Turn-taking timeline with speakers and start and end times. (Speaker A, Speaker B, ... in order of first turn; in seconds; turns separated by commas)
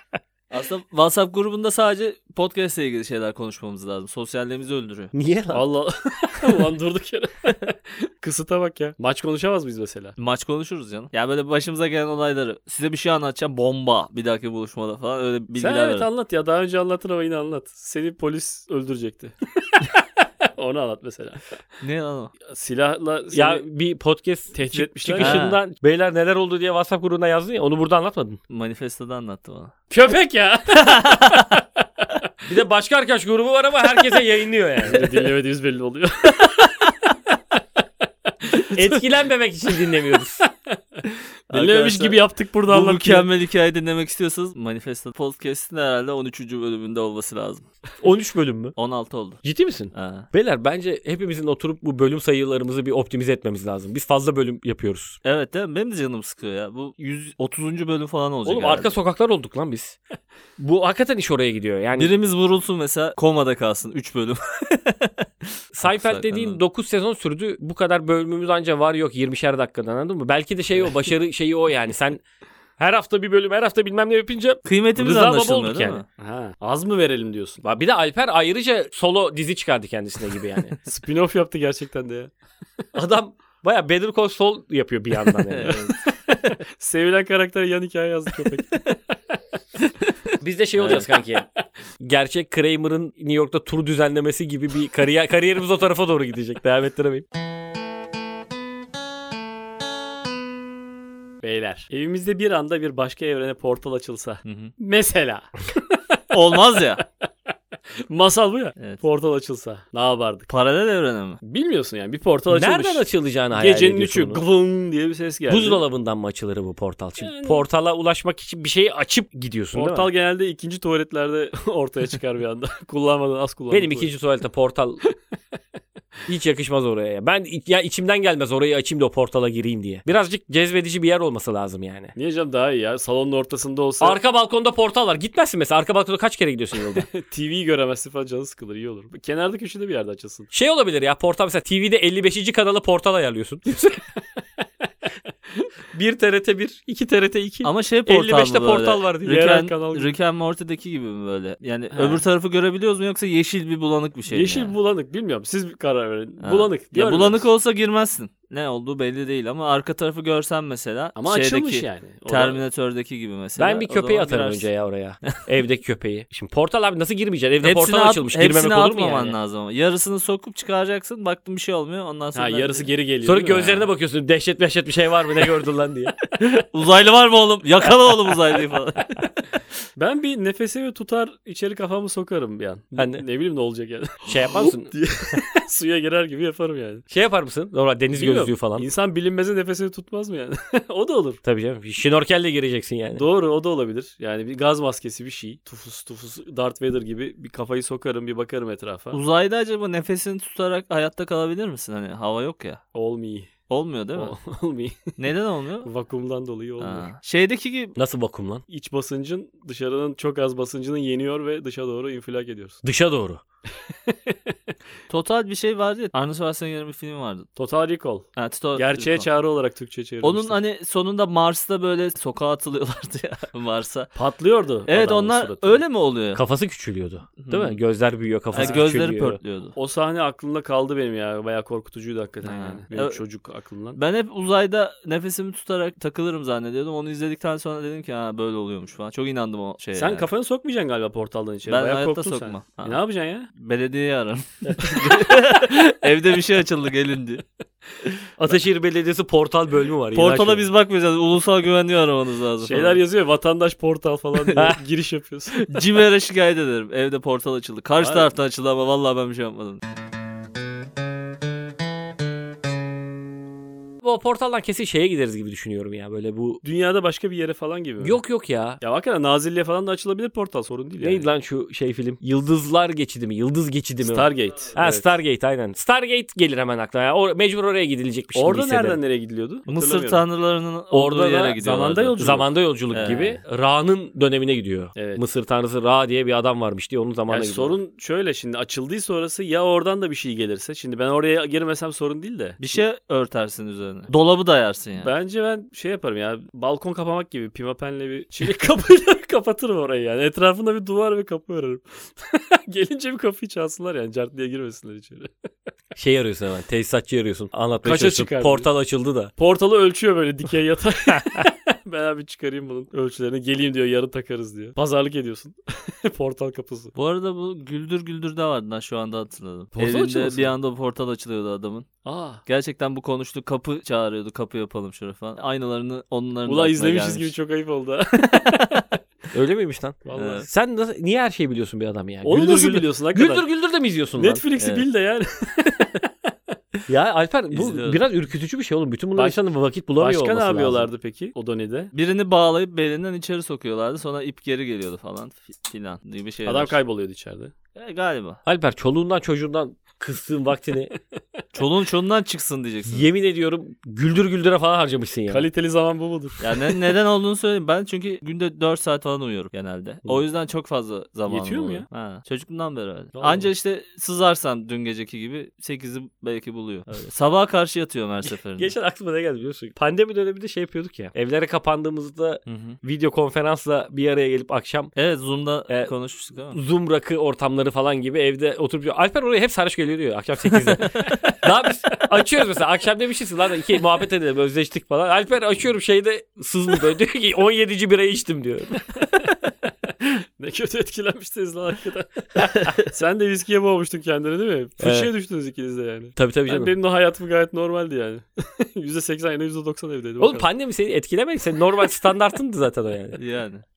Speaker A: 0.5-5.1, Speaker B: 5.1-5.6, Speaker C: 5.5-10.2, Speaker A: 10.2-16.1, Speaker C: 15.6-19.9, Speaker C: 20.6-21.4, Speaker A: 21.8-22.3, Speaker C: 22.5-23.6, Speaker B: 23.3-28.4, Speaker C: 24.5-25.5, Speaker A: 25.2-25.6, Speaker A: 28.5-29.7, Speaker C: 29.9-31.3, Speaker A: 30.8-31.4, Speaker B: 32.5-35.1, Speaker C: 34.8-36.7, Speaker C: 38.5-38.8, Speaker B: 38.7-40.4, Speaker C: 40.4-43.3, Speaker A: 41.5-47.6, Speaker B: 48.0-48.8, Speaker A: 48.8-50.3, Speaker B: 49.4-55.2, Speaker A: 55.2-58.9, Speaker B: 58.5-60.0, Speaker B: 60.6-62.1, Speaker A: 62.0-65.3, Speaker B: 65.7-72.2, Speaker A: 65.8-66.6, Speaker B: 72.8-76.0, Speaker A: 74.7-76.0, Speaker C: 76.2-77.6, Speaker B: 77.6-80.8, Speaker C: 80.8-82.3, Speaker B: 83.0-85.8, Speaker A: 85.5-86.5, Speaker C: 86.8-88.8, Speaker B: 90.4-91.5, Speaker A: 90.8-91.1, Speaker B: 92.0-97.3, Speaker C: 101.4-105.5, Speaker A: 104.5-104.7, Speaker A: 106.3-107.0, Speaker C: 108.1-110.5, Speaker A: 108.8-109.0, Speaker A: 110.5-111.4, Speaker C: 111.4-115.8, Speaker B: 112.5-114.4, Speaker B: 115.5-120.1, Speaker C: 117.2-117.6, Speaker C: 119.7-124.1, Speaker B: 123.7-125.0, Speaker B: 126.3-132.1, Speaker C: 132.2-134.2, Speaker B: 134.0-137.1, Speaker C: 136.8-140.5, Speaker B: 140.5-144.1, Speaker B: 145.9-149.6, Speaker A: 147.6-154.8, Speaker C: 149.3-150.1, Speaker C: 151.9-152.2, Speaker C: 154.3-157.5, Speaker A: 156.4-164.7, Speaker C: 161.2-162.6, Speaker B: 163.6-169.4, Speaker A: 167.6-172.9, Speaker C: 172.3-173.8, Speaker B: 173.2-176.2, Speaker A: 176.4-179.3, Speaker C: 180.0-187.1, Speaker B: 183.0-183.2, Speaker B: 184.3-185.4, Speaker B: 187.1-188.9, Speaker C: 188.2-191.4, Speaker B: 191.4-193.2, Speaker C: 193.2-199.2, Speaker A: 199.1-202.8, Speaker C: 202.9-203.5, Speaker A: 203.7-204.3, Speaker C: 204.2-205.2, Speaker A: 205.2-205.9, Speaker C: 205.8-207.1, Speaker A: 206.8-208.0, Speaker B: 208.0-208.6, Speaker C: 208.7-212.8, Speaker B: 212.8-213.4, Speaker C: 214.1-214.5, Speaker A: 215.1-217.5, Speaker C: 217.6-220.6, Speaker A: 218.4-219.3, Speaker A: 220.2-224.1, Speaker C: 224.2-225.8, Speaker A: 224.9-226.4, Speaker B: 226.3-229.4, Speaker A: 227.4-227.8, Speaker A: 228.5-229.8, Speaker C: 228.6-228.8, Speaker C: 229.8-234.0, Speaker A: 232.4-233.2, Speaker A: 234.0-240.3, Speaker C: 239.9-243.5, Speaker A: 241.7-243.0, Speaker A: 243.6-247.4, Speaker C: 244.8-245.3, Speaker B: 248.4-250.7, Speaker A: 250.1-253.0, Speaker C: 252.6-255.7, Speaker A: 255.6-259.8, Speaker C: 258.0-258.3, Speaker B: 264.0-266.6, Speaker C: 266.6-268.2, Speaker B: 268.0-268.8, Speaker C: 268.8-271.3, Speaker B: 271.0-279.0, Speaker C: 274.0-275.1, Speaker C: 278.3-280.2, Speaker A: 279.7-282.4, Speaker B: 280.9-281.6, Speaker C: 281.6-282.5, Speaker B: 282.2-287.8, Speaker A: 282.9-283.4, Speaker C: 284.9-285.2, Speaker C: 287.3-292.6, Speaker A: 292.6-295.1, Speaker C: 295.0-305.3, Speaker B: 305.9-309.3, Speaker C: 307.8-308.7, Speaker C: 309.4-316.9, Speaker A: 316.9-321.9, Speaker C: 319.8-320.5, Speaker C: 322.0-322.4, Speaker A: 322.5-327.3, Speaker C: 326.5-328.6, Speaker B: 329.3-334.4, Speaker C: 330.1-330.5, Speaker A: 330.1-330.5, Speaker C: 332.2-333.4, Speaker C: 334.2-336.0, Speaker A: 334.6-334.9, Speaker B: 336.9-340.9, Speaker A: 337.5-338.0, Speaker C: 340.0-341.9, Speaker A: 341.9-346.8, Speaker C: 346.5-347.5, Speaker A: 347.8-348.4, Speaker B: 348.4-350.9, Speaker A: 351.5-353.1, Speaker B: 352.9-355.5, Speaker C: 355.3-356.6, Speaker A: 356.4-368.7, Speaker C: 361.3-361.9, Speaker C: 363.2-363.5, Speaker B: 368.3-374.9, Speaker A: 372.5-372.8, Speaker A: 374.9-376.6, Speaker B: 376.5-389.0, Speaker A: 380.8-381.2, Speaker C: 390.4-400.5, Speaker B: 394.8-395.1, Speaker B: 396.2-396.8, Speaker B: 400.2-403.2, Speaker A: 403.2-403.6